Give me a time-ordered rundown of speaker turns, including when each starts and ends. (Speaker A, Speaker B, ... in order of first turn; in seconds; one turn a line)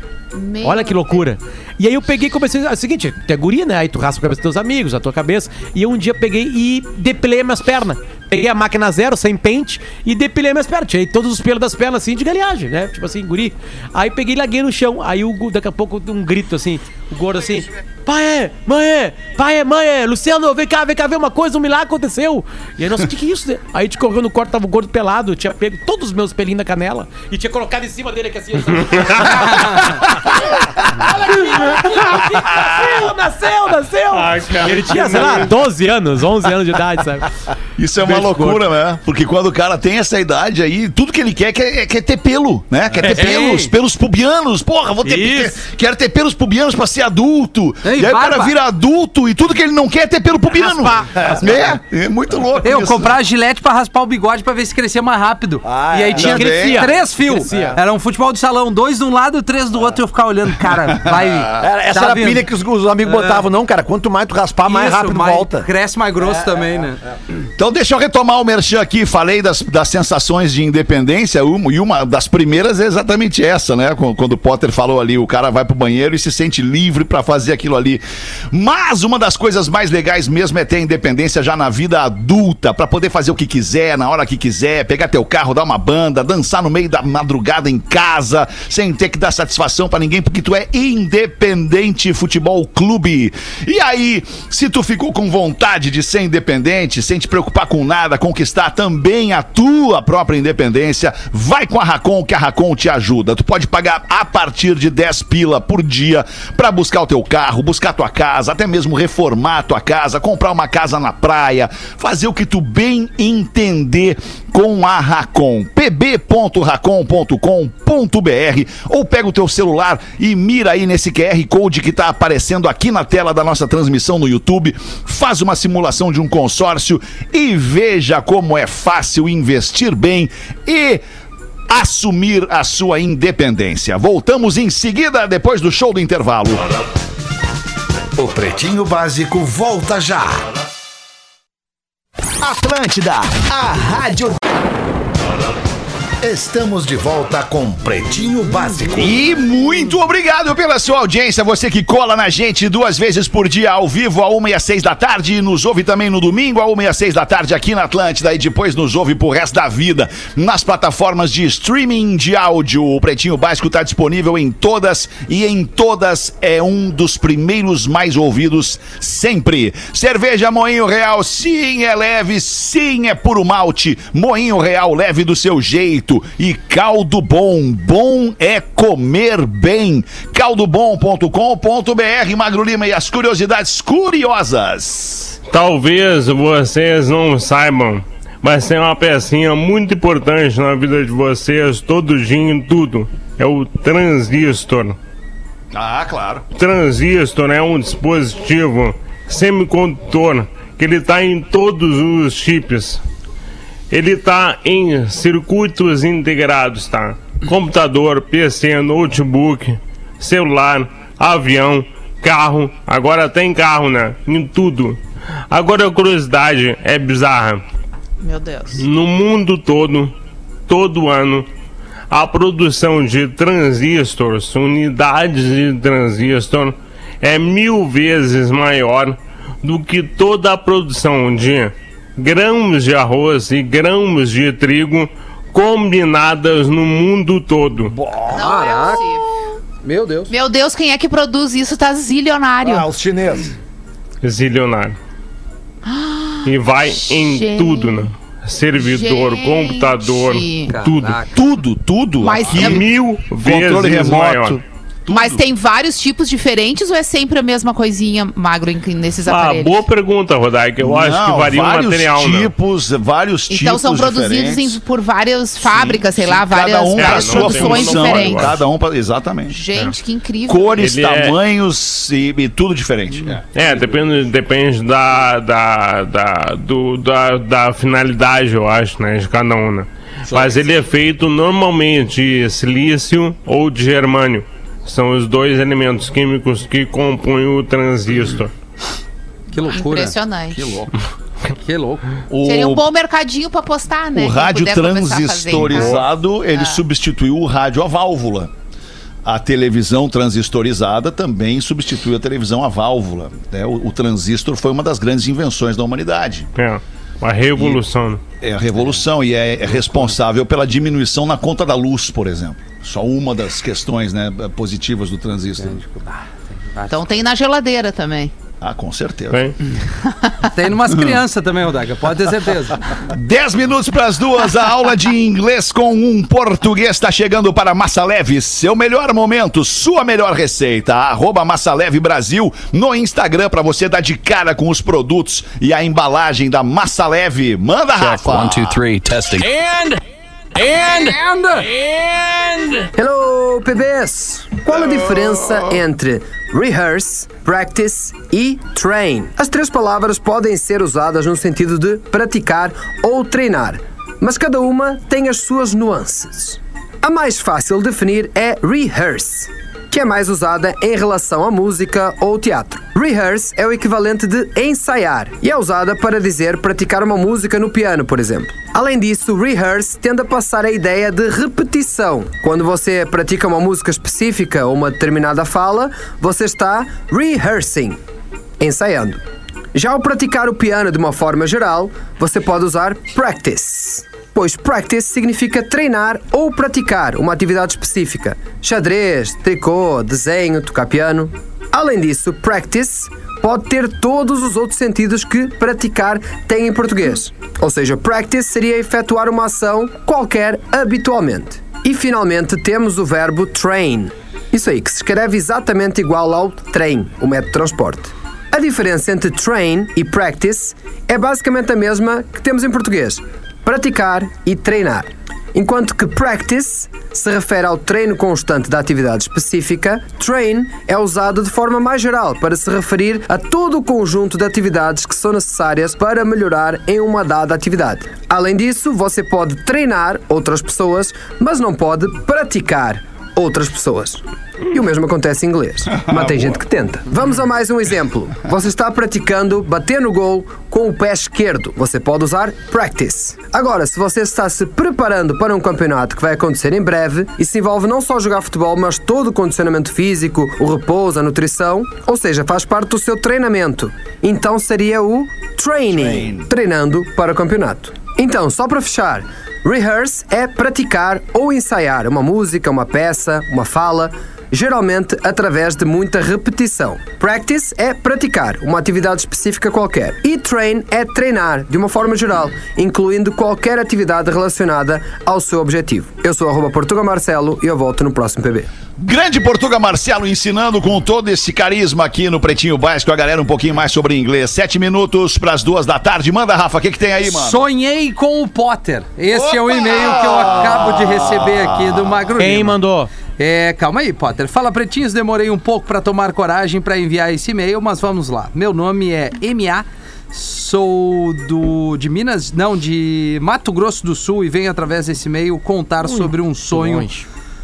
Speaker A: 0.3-1.2
Speaker B: 0.6-30.1
Speaker C: 29.5-31.3
Speaker B: 31.0-37.3
Speaker C: 32.0-33.1
Speaker D: 34.1-35.5
Speaker C: 37.8-53.1
Speaker B: 38.0-38.6
Speaker B: 43.0-43.3
Speaker E: 43.1-43.7
Speaker B: 45.0-45.6
Speaker E: 47.8-48.6
Speaker B: 50.5-51.8
Speaker E: 52.6-62.5
Speaker F: 55.6-56.4
Speaker B: 56.1-57.8
Speaker C: 56.2-56.9
Speaker F: 57.5-57.8
Speaker C: 61.0-61.5
Speaker F: 61.6-65.7
Speaker E: 63.0-63.5
Speaker E: 64.7-67.0
Speaker F: 66.2-67.1
Speaker C: 67.6-131.0
Speaker C: 131.7-136.7
Speaker G: 138.2-140.5
Speaker G: 142.4-144.4
Speaker C: 142.5-143.3
Speaker G: 146.2-149.2
Speaker C: 148.9-185.3
Speaker D: 185.5-195.0
Speaker C: 195.7-196.4
Speaker D: 196.6-203.0
Speaker D: 203.9-215.0
Speaker D: 215.5-217.6
Speaker A: 218.2-218.9
Speaker D: 218.8-220.1
Speaker D: 220.7-221.5
Speaker D: 222.1-237.9
Speaker F: 237.9-238.6
Speaker A: 238.3-239.3
Speaker E: 238.4-239.1
Speaker E: 239.8-240.3
Speaker A: 240.3-242.9
Speaker F: 242.6-243.5
Speaker D: 244.2-245.0
Speaker A: 245.9-248.1
Speaker D: 246.4-251.2
Speaker A: 248.8-250.7
Speaker E: 250.7-251.4
Speaker C: 251.3-252.9
Speaker A: 252.2-252.8
Speaker D: 252.6-254.6
Speaker C: 253.4-255.4
Speaker A: 255.1-259.8
Speaker D: 259.3-262.5
Speaker C: 260.8-264.8
Speaker A: 263.5-268.6
Speaker C: 265.6-269.6
Speaker D: 267.0-268.6
Speaker A: 269.5-270.9
Speaker C: 270.5-273.4
Speaker D: 270.8-271.4
Speaker D: 273.5-288.5
Speaker E: 289.5-290.2
Speaker A: 289.7-290.8
Speaker C: 290.5-290.9
Speaker E: 291.4-292.2
Speaker C: 292.3-292.9
Speaker A: 292.4-296.8
Speaker C: 294.1-298.5
Speaker D: 295.6-296.0
Speaker C: 299.2-306.5
Speaker D: 306.6-308.2
Speaker C: 307.6-307.8
Speaker C: 308.4-315.8
Speaker E: 315.6-317.1
Speaker A: 316.9-318.3
Speaker C: 318.6-319.4
Speaker E: 320.5-323.0
Speaker C: 320.9-321.2
Speaker C: 323.1-338.8
Speaker H: 337.9-340.0
Speaker H: 340.6-342.9
Speaker E: 340.9-341.7
Speaker I: 343.0-378.0
Speaker C: 344.7-345.7
Speaker I: 378.6-379.2
Speaker I: 379.7-478.7
Speaker C: 436.1-436.6
Speaker C: 455.9-456.5
Speaker C: 479.0-487.6
Speaker E: 487.2-492.8
Speaker C: 489.3-492.1
Speaker B: 492.4-493.1
Speaker E: 493.4-507.1
Speaker B: 506.0-507.3